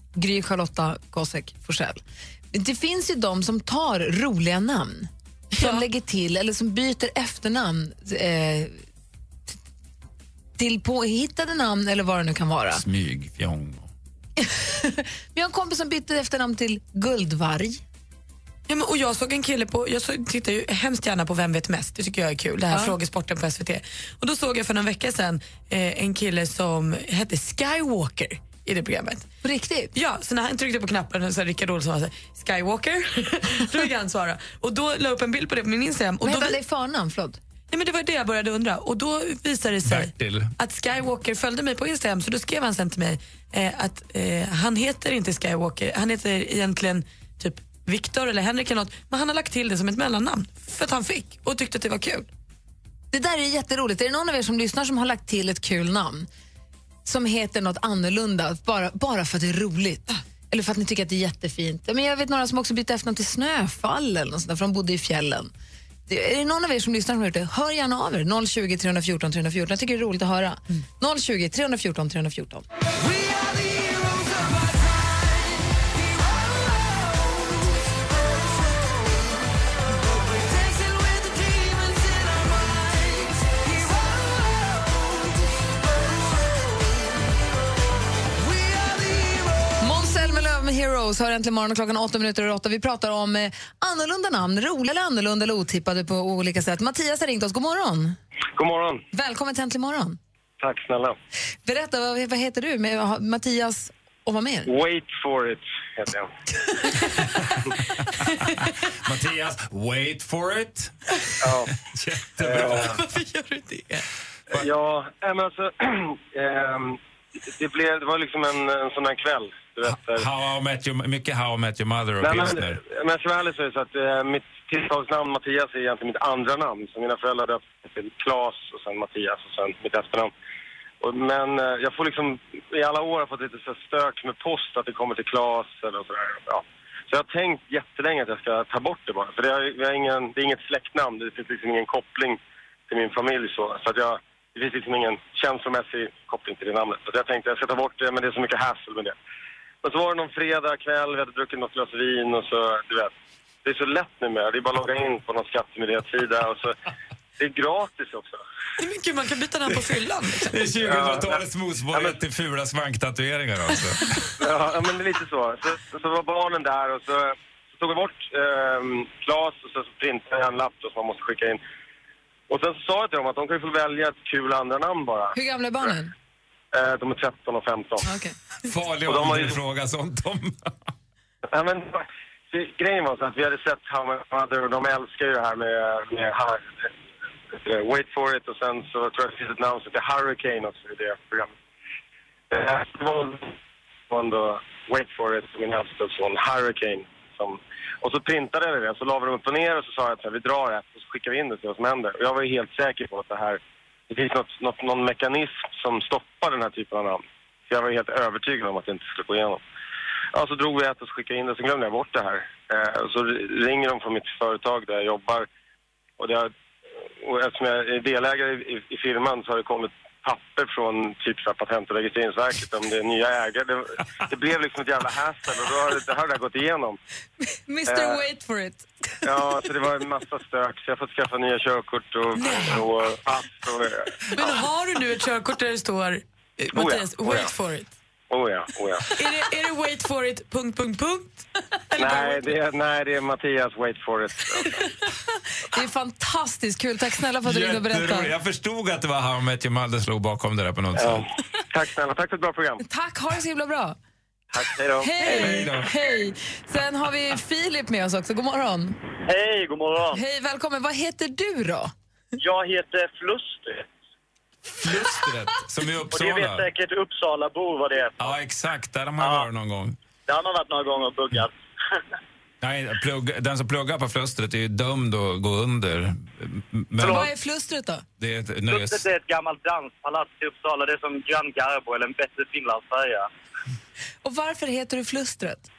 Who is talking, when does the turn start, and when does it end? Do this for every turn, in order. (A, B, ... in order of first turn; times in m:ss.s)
0:00.2-0:08.8 A
0:10.6-0:12.8 A
0:12.7-0:13.9 B
0:14.4-0:17.8 A
0:18.7-0:29.3 C
0:29.4-0:29.9 A
0:29.9-0:36.6 C
0:36.2-0:37.4 A
0:37.7-0:52.3 C
0:39.8-0:40.5 B
0:53.1-0:56.3 A
0:57.0-1:05.5 A
1:06.1-1:12.6 A
1:13.0-1:14.7 C
1:20.3-1:23.2 C
1:29.8-1:38.2 A
1:38.6-1:39.0 D
1:39.1-1:40.2 A
1:40.6-1:41.2 D
1:41.6-1:44.7 A
1:44.7-1:46.3 D
1:49.0-1:53.0 B
1:51.4-1:51.7 D
1:52.4-1:52.9 D
1:52.7-1:54.0 C
1:54.5-2:00.2 D
1:59.9-2:02.8 B
2:02.2-2:10.3 D
2:11.0-2:29.2 D
2:29.8-2:36.7 D
2:37.4-2:38.4 D
2:38.8-2:40.6 C
2:40.4-2:44.3 B
2:40.8-2:41.4 D
2:44.4-2:51.6 D
2:52.5-2:55.3 D
2:55.3-2:56.1 A
2:56.7-2:58.0 D
2:58.0-2:58.3 A
2:58.6-3:00.9 B
2:59.1-2:59.5 D
3:01.5-3:06.9 D
3:07.6-3:11.5 D
3:12.5-3:13.5 D
3:14.1-3:29.6 D
3:30.3-3:35.4 D
3:36.2-3:36.5 D
3:37.2-3:47.0 D
3:47.5-3:49.0 A
3:47.9-3:48.2 D
3:49.2-3:54.5 D
3:52.4-3:52.9 C
3:54.3-3:57.9 C
3:56.7-3:57.5 D
3:58.3-3:59.2 D
3:59.1-4:02.6 C
4:02.0-4:04.8 D
4:05.7-4:08.3 A
4:07.4-4:11.3 B
4:11.0-4:12.8 D
4:12.8-4:14.0 A
4:14.7-4:15.7 E
4:15.0-4:18.9 A
4:15.2-4:15.9 B
4:19.3-4:20.2 E
4:20.1-4:21.9 A
4:22.4-4:23.8 E
4:24.8-4:26.7 B
4:26.1-4:28.4 E
4:28.2-4:30.0 B
4:29.2-4:29.5 E
4:30.3-4:32.0 E
4:32.6-4:37.3 B
4:37.0-4:37.3 E
4:37.0-4:38.0 A
4:38.2-4:39.1 B
4:38.7-4:43.3 E
4:44.2-4:45.7 A